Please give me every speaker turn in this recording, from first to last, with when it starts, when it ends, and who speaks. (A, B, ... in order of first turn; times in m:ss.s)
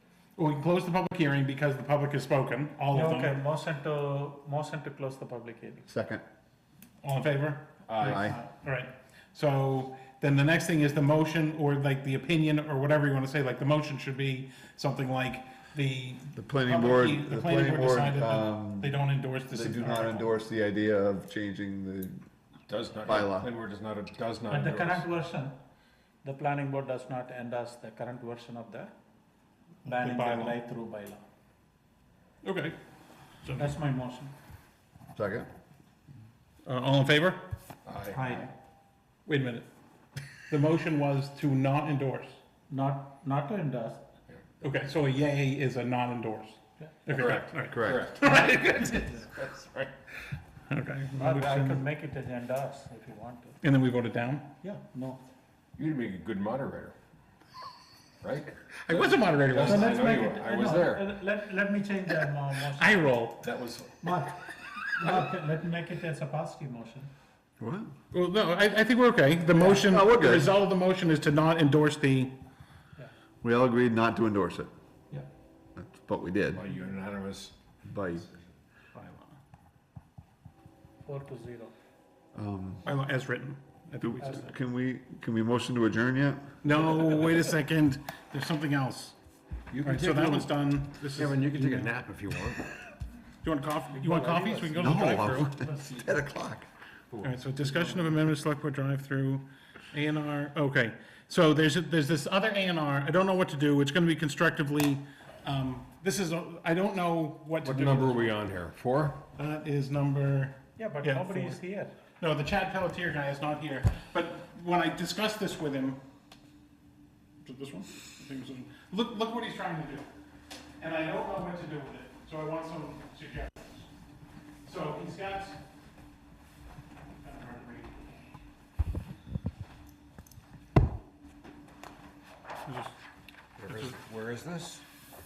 0:00.4-0:03.4 A
0:02.9-0:05.8 B
0:05.9-0:06.2 C
0:07.0-0:20.3 A
0:07.9-0:08.3 D
0:08.0-0:08.4 C
0:16.4-0:19.0 C
0:19.5-0:22.2 C
0:22.7-0:25.1 D
0:23.1-0:23.5 C
0:24.5-0:25.6 B
0:26.2-0:28.9 B
0:29.8-0:31.2 B
0:29.9-0:30.6 A
0:32.4-0:32.8 A
0:33.4-0:33.7 A
0:33.6-0:34.3 B
0:35.2-0:35.5 C
0:36.6-0:37.5 A
0:37.8-0:38.3 D
0:38.1-0:38.5 B
0:39.2-0:39.7 A
0:40.5-0:42.4 A
0:42.7-0:44.0 B
0:44.6-0:49.2 A
0:47.1-0:49.9 D
0:47.7-0:48.0 C
0:50.7-0:51.8 A
0:51.1-0:53.6 B
0:53.6-0:54.5 A
0:54.6-0:55.2 B
0:55.8-0:57.0 D
0:58.2-1:01.1 D
0:58.8-1:00.2 A
0:59.6-1:03.2 B
1:02.8-1:03.5 A
1:03.4-1:04.1 D
1:04.0-1:07.1 B
1:07.6-1:07.9 C
1:08.1-1:12.3 A
1:09.5-1:10.5 C
1:13.4-1:14.7 C
1:15.8-1:16.6 C
1:16.5-1:17.5 D
1:17.9-1:18.3 C
1:19.0-1:19.3 A
1:21.0-1:21.7 B
1:22.3-1:22.9 C
1:22.8-1:24.5 A
1:24.0-1:26.4 C
1:26.6-1:29.2 A
1:29.7-1:30.5 D
1:29.8-1:31.9 A
1:31.1-1:32.7 D
1:33.4-1:35.5 A
1:33.9-1:36.1 B
1:34.8-1:36.7 C
1:35.0-1:35.3 D
1:37.2-1:48.4 A
1:47.6-1:49.2 D
1:49.4-1:51.6 A
1:50.8-1:51.9 B
1:52.2-1:56.0 A
1:57.4-2:00.1 A
2:00.8-2:03.9 A
2:04.6-2:05.6 A
2:07.2-2:08.1 A
2:12.7-2:12.9 A
2:13.6-2:14.8 D
2:13.7-2:14.0 A